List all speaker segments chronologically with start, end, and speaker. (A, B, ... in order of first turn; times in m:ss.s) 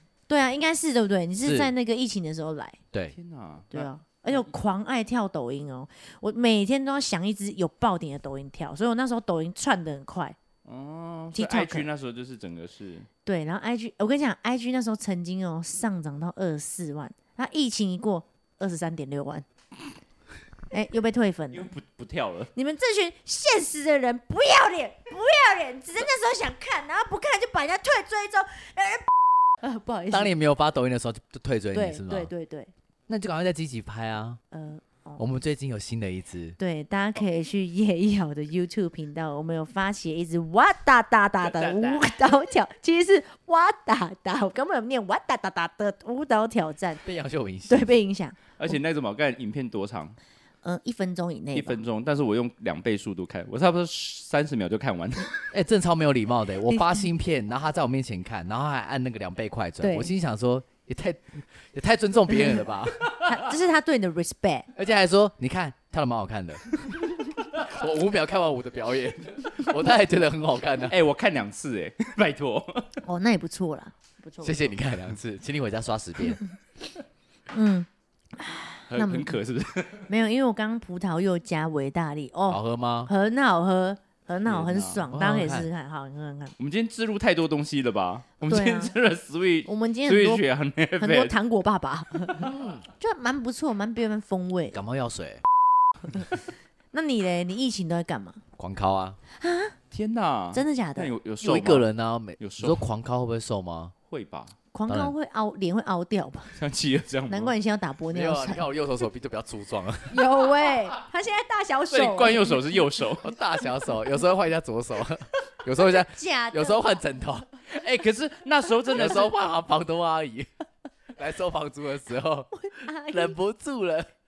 0:00.3-0:02.8 A
0:01.4-0:01.7 B
0:03.1-0:04.5 C
0:03.7-0:10.4 A
0:10.6-0:13.1 C
0:11.3-0:11.9 A
0:13.2-0:19.5 A
0:20.7-0:21.7 A
0:21.5-0:22.5 C
0:22.6-0:29.1 A
0:29.6-0:30.3 A
0:30.1-0:32.3 B
0:31.7-0:32.7 A
0:33.1-0:34.4 B
0:34.5-0:35.2 A
0:35.2-0:36.6 B
0:36.6-0:47.0 A
0:41.4-0:42.1 C
0:47.0-0:47.9 B
0:47.7-0:48.8 A
0:48.6-0:50.2 C
0:50.6-0:51.8 A
0:51.5-0:55.3 C
0:55.5-1:03.1 B
0:56.7-0:57.0 A
0:59.8-1:00.1 A
1:03.3-1:04.7 A
1:04.8-1:06.7 B
1:07.6-1:11.0 B
1:10.9-1:12.9 C
1:13.0-1:14.6 A
1:14.4-1:16.4 B
1:17.5-1:19.4 A
1:18.9-1:20.1 C
1:20.1-1:26.5 A
1:22.5-1:23.1 B
1:24.5-1:25.1 C
1:25.1-1:25.7 B
1:26.6-1:31.3 C
1:28.4-1:28.9 A
1:29.7-1:30.4 A
1:31.0-1:34.8 A
1:32.4-1:32.8 B
1:34.7-1:35.4 B
1:36.9-1:38.4 A
1:38.6-1:39.2 B
1:39.4-1:39.8 A
1:39.9-1:42.8 C
1:40.5-1:41.1 A
1:41.4-1:43.9 B
1:44.1-1:44.6 C
1:44.7-1:46.6 A
1:44.9-1:45.1 B
1:46.6-1:47.5 C
1:47.3-1:48.7 A
1:48.1-1:50.3 B
1:50.1-1:52.8 A
1:51.9-1:53.3 C
1:53.2-1:57.5 B
1:56.1-1:57.0 A
1:57.7-1:59.3 C
1:58.9-2:00.5 B
2:01.2-2:04.1 B
2:02.5-2:03.4 A